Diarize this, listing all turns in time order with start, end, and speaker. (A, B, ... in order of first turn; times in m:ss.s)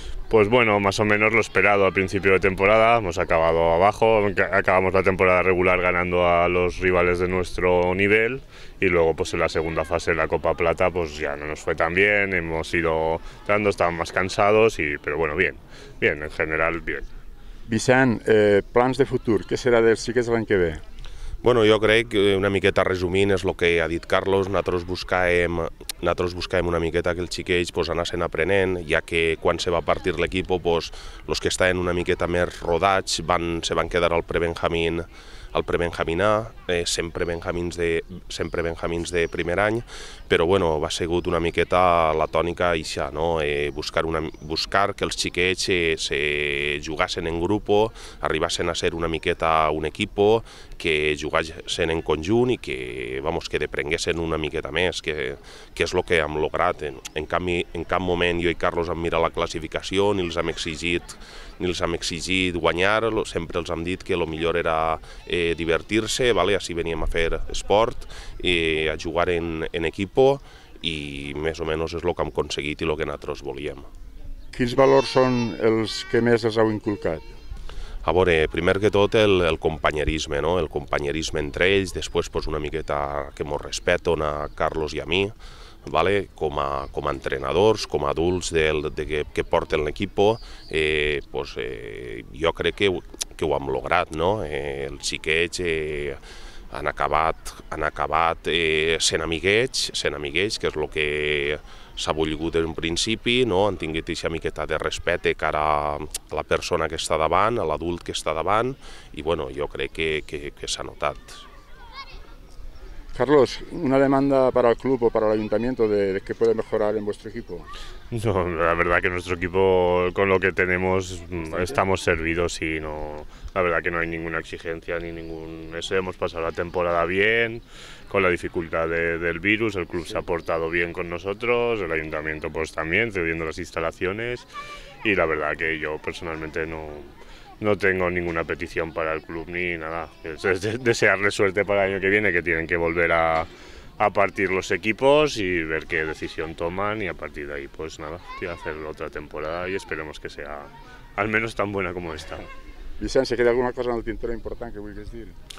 0:00.3-0:17.1 A
0:17.7-0:20.8 B
0:21.4-1:13.9 C
1:14.5-1:17.3 B
1:18.0-1:25.4 C
1:25.9-1:36.2 C
1:36.7-1:51.4 C
1:53.1-1:57.7 B
1:58.1-2:14.5 A
2:01.4-2:01.8 B
2:15.0-2:32.5 A
2:33.0-2:35.4 B